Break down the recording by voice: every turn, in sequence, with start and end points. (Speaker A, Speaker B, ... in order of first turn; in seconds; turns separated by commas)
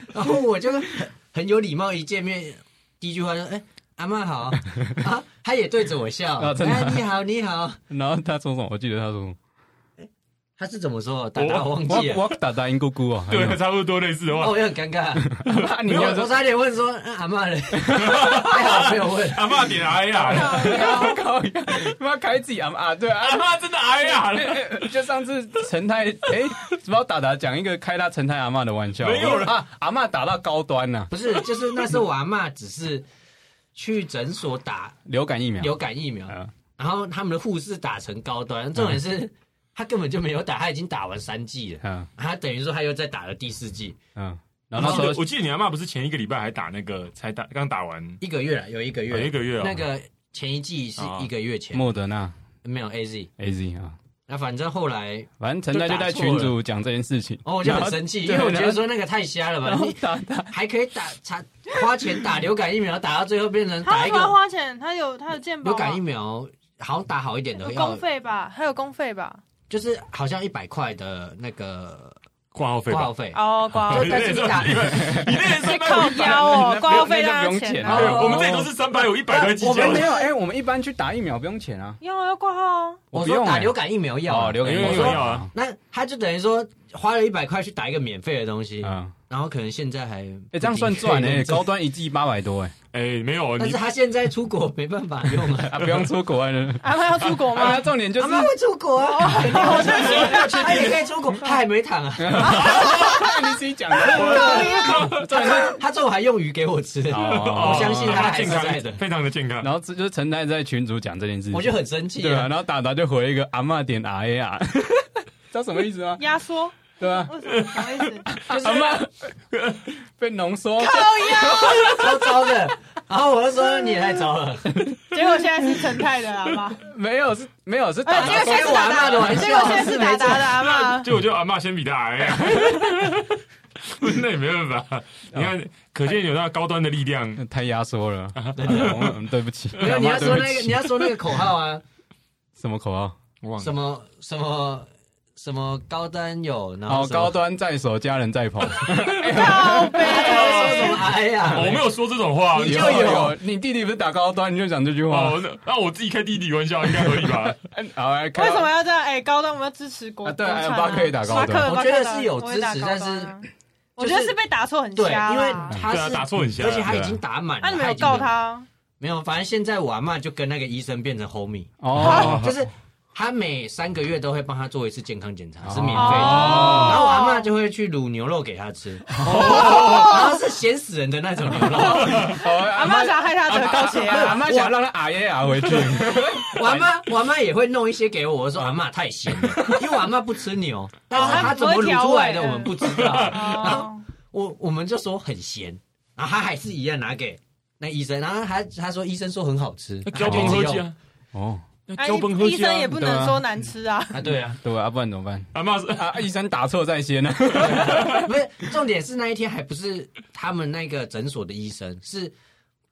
Speaker A: 0.1-7.8, Speaker B: 6.4-7.0, Speaker B: 7.9-9.4, Speaker A: 10.6-12.2, Speaker C: 11.4-12.2, Speaker B: 11.9-13.6, Speaker C: 13.3-14.6, Speaker A: 14.3-19.8, Speaker B: 15.2-16.3, Speaker B: 17.8-18.3, Speaker C: 17.9-21.1, Speaker D: 20.2-21.2, Speaker B: 20.3-31.4, Speaker C: 23.2-24.9, Speaker C: 29.0-29.6, Speaker A: 31.1-33.0, Speaker A: 33.8-35.0, Speaker B: 35.1-35.7, Speaker A: 35.6-44.0, Speaker B: 36.3-36.5, Speaker B: 41.8-42.1, Speaker B: 44.2-45.2, Speaker C: 44.8-48.2, Speaker A: 44.8-45.1, Speaker A: 48.2-51.8, Speaker C: 49.1-49.8, Speaker C: 51.0-51.3, Speaker B: 51.7-52.4, Speaker A: 52.6-53.3, Speaker B: 53.4-54.0, Speaker A: 54.3-56.6, Speaker B: 55.4-58.9, Speaker A: 57.5-64.4, Speaker B: 59.6-60.5, Speaker D: 63.8-66.0, Speaker A: 65.6-68.0, Speaker D: 67.6-69.4, Speaker A: 69.7-72.2, Speaker C: 72.5-73.2, Speaker A: 72.9-75.2, Speaker D: 73.3-74.5, Speaker C: 73.7-77.1, Speaker B: 74.9-78.7, Speaker D: 75.6-78.3, Speaker C: 77.9-80.2, Speaker A: 79.3-80.2, Speaker B: 79.7-82.0, Speaker D: 82.0-83.0, Speaker B: 83.1-85.5, Speaker A: 83.1-91.7, Speaker C: 84.6-85.5, Speaker B: 88.8-89.1, Speaker B: 90.5-92.7, Speaker C: 92.9-93.8, Speaker A: 93.6-95.8, Speaker B: 95.6-98.5, Speaker C: 95.8-96.1, Speaker D: 96.8-97.9, Speaker A: 98.2-103.2, Speaker D: 99.0-101.0, Speaker C: 99.5-101.1, Speaker B: 102.2-105.8, Speaker C: 102.4-103.2, Speaker D: 102.4-103.3, Speaker D: 104.0-105.1, Speaker C: 104.1-105.7, Speaker A: 104.2-109.0, Speaker B: 107.1-108.6, Speaker C: 107.1-109.7, Speaker B: 109.6-116.2, Speaker A: 111.5-112.5, Speaker D: 116.2-118.3, Speaker B: 117.0-117.3, Speaker C: 117.5-119.0, Speaker B: 118.3-119.2, Speaker A: 118.5-119.0, Speaker C: 119.5-119.8, Speaker B: 120.1-122.0, Speaker D: 120.8-122.2, Speaker A: 121.8-124.8, Speaker B: 124.7-125.0, Speaker D: 125.1-126.8, Speaker B: 126.8-129.8, Speaker D: 128.1-131.1, Speaker A: 128.2-130.5, Speaker C: 130.4-137.4, Speaker B: 137.4-141.2, Speaker C: 138.3-139.2, Speaker A: 138.6-139.1, Speaker A: 139.8-141.8, Speaker B: 142.6-143.2, Speaker C: 143.4-143.7, Speaker A: 143.6-147.4, Speaker B: 146.9-150.3, Speaker C: 148.7-153.3, Speaker D: 149.2-151.1, Speaker A: 149.9-151.9, Speaker A: 152.5-153.4, Speaker B: 152.6-155.4, Speaker C: 155.1-157.6, Speaker B: 157.0-158.7, Speaker D: 158.4-165.8, Speaker B: 160.2-161.8, Speaker A: 161.4-163.4, Speaker A: 164.0-164.4, Speaker A: 164.9-168.3, Speaker C: 165.9-166.9, Speaker B: 166.8-167.2, Speaker D: 167.6-168.7, Speaker A: 169.0-182.4, Speaker B: 171.8-172.5, Speaker C: 172.1-172.5, Speaker B: 175.6-177.1, Speaker D: 175.9-177.5, Speaker B: 179.1-179.9, Speaker C: 179.2-180.2, Speaker D: 179.6-180.3, Speaker D: 181.8-184.4, Speaker C: 182.0-182.3, Speaker B: 182.1-186.8, Speaker A: 183.8-184.8, Speaker A: 186.4-200.9, Speaker B: 189.3-189.9, Speaker D: 191.1-194.0, Speaker C: 192.8-193.8, Speaker C: 200.1-200.9, Speaker B: 200.2-200.7, Speaker B: 201.3-201.6, Speaker C: 201.9-203.0, Speaker D: 202.0-204.4, Speaker B: 202.9-203.4, Speaker A: 204.1-204.6, Speaker B: 204.6-208.3, Speaker C: 205.5-206.2, Speaker A: 207.6-212.3, Speaker C: 207.7-208.2